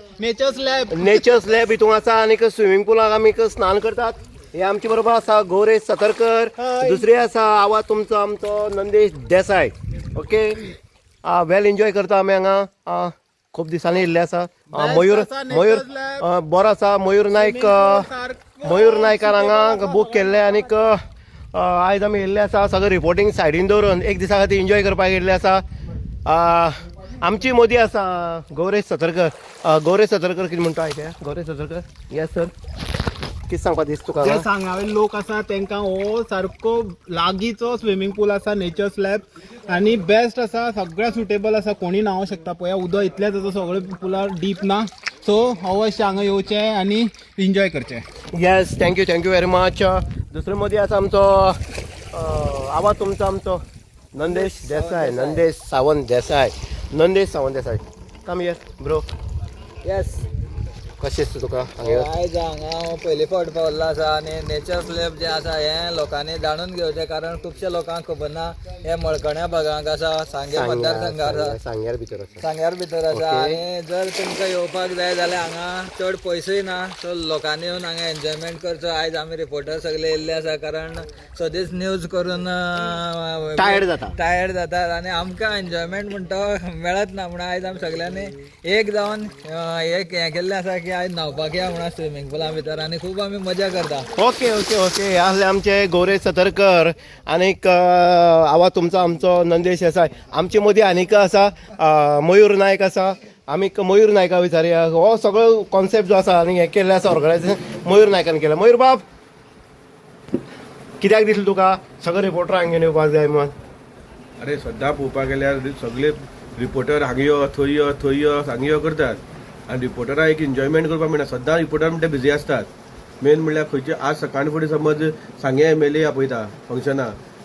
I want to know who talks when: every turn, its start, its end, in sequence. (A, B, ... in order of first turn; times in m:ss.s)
0:00.2-0:01.2 A
0:00.9-0:10.6 B
0:06.6-0:07.0 A
0:11.2-0:18.1 B
0:14.7-0:16.2 A
0:17.3-0:20.4 A
0:18.6-0:21.0 B
0:21.5-0:25.6 B
0:26.2-0:32.5 B
0:33.5-0:34.5 B
0:34.2-0:48.0 A
0:48.3-0:51.6 B
0:52.1-0:53.6 B
0:54.1-0:59.1 B
0:54.2-0:55.4 C
0:59.8-1:00.3 C
1:01.0-1:02.1 B
1:01.8-1:11.6 C
1:10.5-1:12.4 B
1:12.4-1:34.1 C
1:13.1-1:13.6 B
1:23.6-1:24.1 B
1:34.2-1:49.0 B
1:51.0-1:53.5 B
1:54.4-2:02.7 D
2:03.2-2:07.2 D